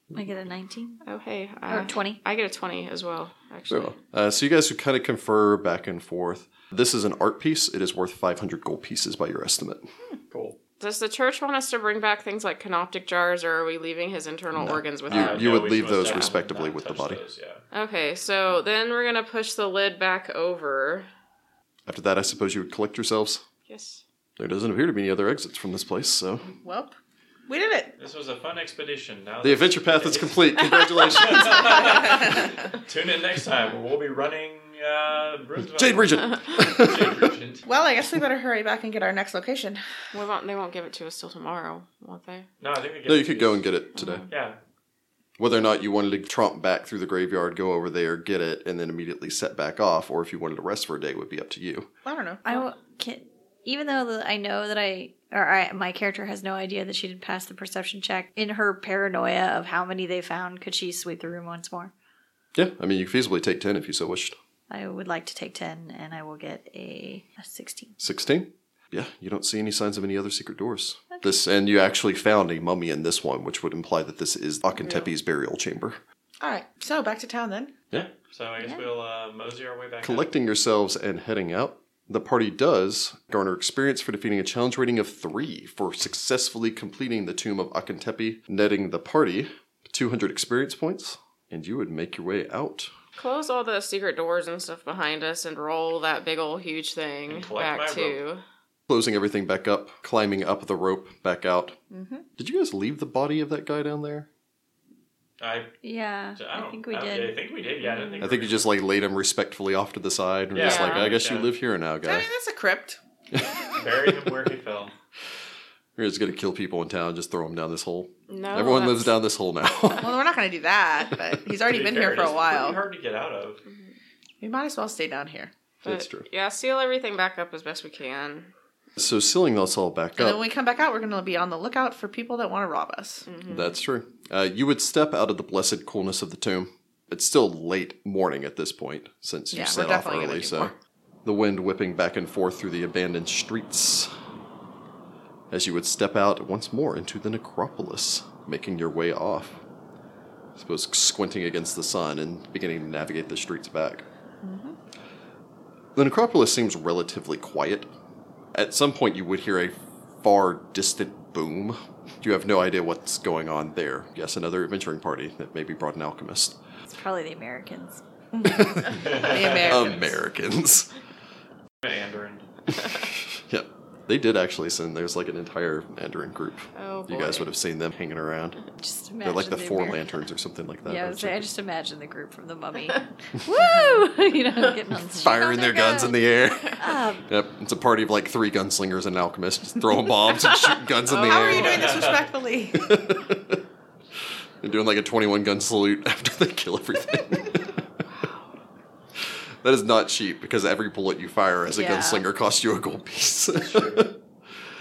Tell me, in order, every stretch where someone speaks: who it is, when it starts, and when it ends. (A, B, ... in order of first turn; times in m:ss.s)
0:00.1-0:01.0 A
0:01.0-0:04.0 B
0:01.7-0:02.2 A
0:03.7-0:09.9 C
0:10.3-0:10.6 D
0:10.8-0:15.5 B
0:14.6-0:17.2 C
0:15.1-0:17.6 D
0:17.7-0:21.1 B
0:21.9-0:23.4 C
0:23.7-0:24.0 B
0:24.4-0:26.5 C
0:26.6-0:27.0 E
0:27.5-0:27.9 E
0:28.0-0:37.7 D
0:29.4-0:32.0 C
0:32.0-0:32.4 E
0:35.6-0:37.4 C
0:37.7-0:39.8 E
0:40.1-0:42.5 B
0:42.6-0:43.7 D
0:43.1-0:44.2 C
0:44.0-0:44.3 B
0:44.3-0:44.6 D
0:45.4-0:51.9 C
0:52.0-0:52.4 E
0:52.4-1:01.9 A
1:02.5-1:04.4 C
1:04.7-1:08.0 A
1:08.0-1:16.0 C
1:16.4-1:17.8 E
1:17.9-1:20.3 D
1:20.0-1:32.9 C
1:33.2-1:38.4 B
1:37.3-1:38.2 D
1:38.9-1:41.8 C
1:41.9-1:42.2 E
1:42.4-1:44.3 C
1:45.4-1:45.7 D
1:45.8-1:47.4 A
1:46.4-1:48.7 D
1:47.8-1:48.2 B
1:48.2-1:52.3 C
1:50.5-1:51.5 D
1:50.6-1:51.1 B
1:52.0-1:53.0 E
1:53.3-1:54.3 C
1:53.7-1:54.9 D
1:56.0-2:00.2 C
1:58.3-1:59.1 B
2:00.0-2:02.8 E
2:01.6-2:03.6 D
2:03.7-2:03.9 B
2:04.4-2:05.5 E
2:05.8-2:08.5 B
2:05.8-2:06.3 C
2:09.0-2:10.5 C
2:10.2-2:13.3 E
2:13.3-2:13.7 B
2:13.5-2:20.7 C
2:19.5-2:20.7 E
2:21.2-2:24.1 C
2:25.5-2:29.6 C
2:30.6-2:34.0 C
2:34.4-2:34.8 E
2:36.0-2:37.9 C
2:38.5-2:46.6 C
2:46.9-2:48.0 A
2:48.3-2:50.2 E
2:48.4-2:50.9 C
2:48.9-2:50.0 D
2:51.8-2:52.5 D
2:52.7-2:58.6 C
2:56.7-2:57.5 B
2:58.8-3:00.2 A
2:59.2-3:01.5 C
3:00.8-3:07.3 A
3:03.4-3:03.7 C
3:05.2-3:12.0 C
3:10.4-3:11.9 B
3:11.2-3:12.9 E
3:11.4-3:12.3 D
3:12.7-3:13.6 C
3:14.6-3:17.8 C
3:18.1-3:18.4 B
3:19.2-3:24.2 C
3:21.7-3:22.3 A
3:23.6-3:24.2 D